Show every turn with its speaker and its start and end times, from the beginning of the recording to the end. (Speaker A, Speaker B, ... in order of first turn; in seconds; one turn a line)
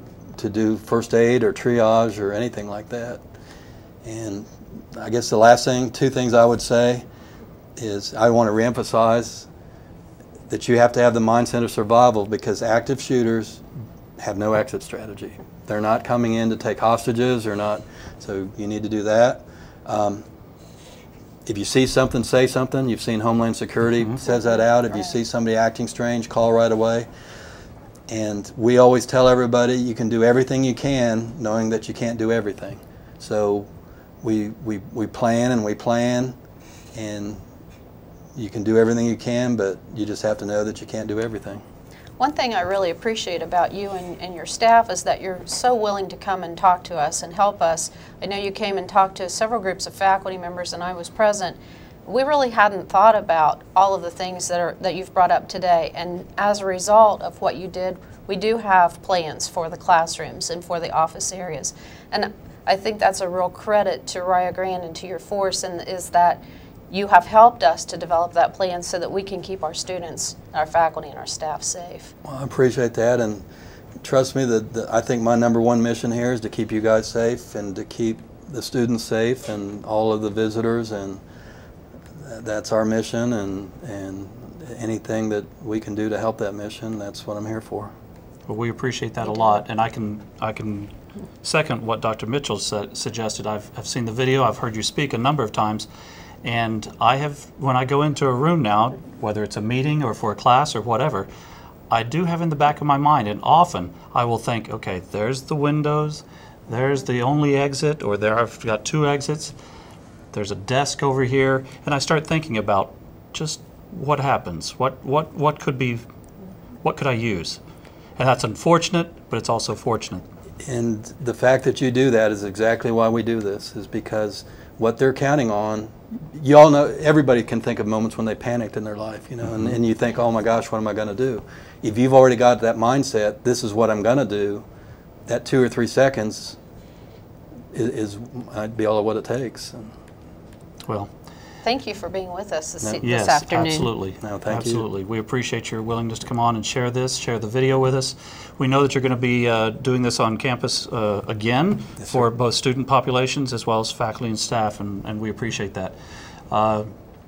Speaker A: 0.4-3.2
Speaker A: 4.0-7.0
Speaker A: 7.8-9.5
Speaker A: 10.5-13.6
Speaker A: 14.2-20.2
Speaker A: 21.4-27.1
Speaker A: 28.1-33.7
Speaker A: 34.2-36.4
Speaker A: 36.9-37.4
Speaker A: 38.3-41.6
Speaker B: 42.2-72.1
Speaker A: 72.2-73.4
Speaker A: 74.0-81.2
Speaker A: 82.2-87.9
Speaker C: 88.5-95.9
Speaker C: 96.4-101.3
Speaker C: 101.9-109.5
Speaker C: 110.3-116.0
Speaker C: 116.8-117.6
Speaker C: 118.2-120.2
Speaker A: 120.6-134.7
Speaker A: 135.2-136.6
Speaker A: 137.7-139.9
Speaker B: 141.6-143.9
Speaker C: 143.0-155.9
Speaker A: 144.2-144.8
Speaker C: 156.5-156.9